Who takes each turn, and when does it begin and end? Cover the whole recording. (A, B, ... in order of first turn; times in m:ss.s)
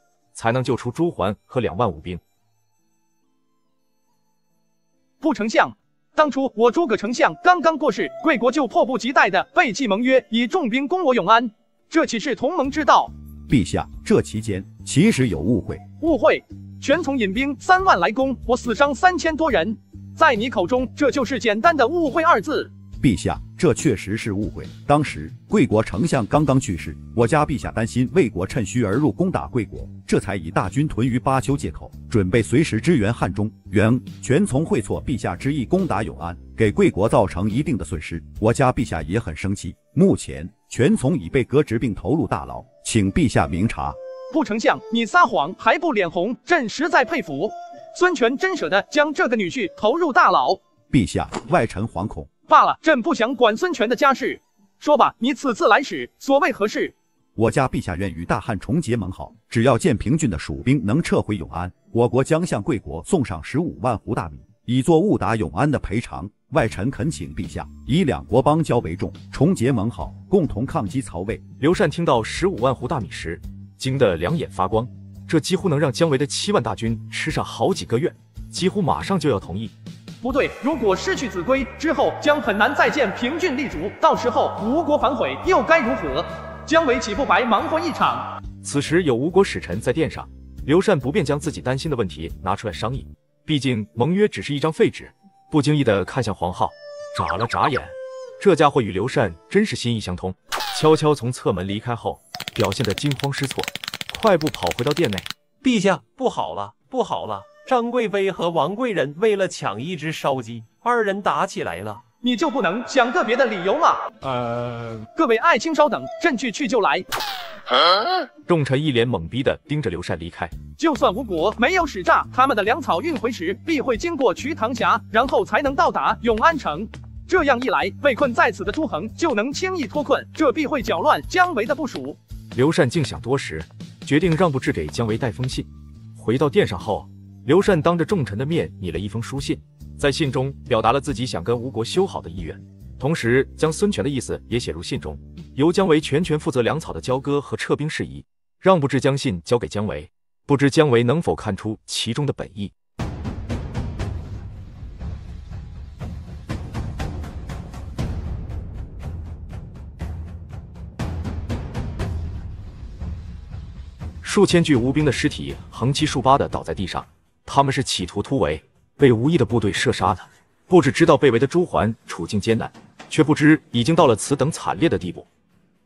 0:00.3-0:02.2 A
0:05.2-0:13.1 B
0:13.5-0:15.8 C
0:16.0-0:22.7 B
0:23.0-0:44.0 C
0:44.3-0:50.6 B
0:50.9-0:52.3 C
0:52.5-0:56.9 B
0:57.4-1:11.4 C
1:11.6-1:19.7 A
1:20.2-1:28.3 B
1:28.6-1:45.3 A
1:45.6-1:52.0 D
1:52.2-1:54.0 B
1:55.1-1:57.0 B
1:58.5-2:00.5 A
2:00.8-2:12.2 B
2:12.5-2:32.7 A
2:44.2-2:55.2 A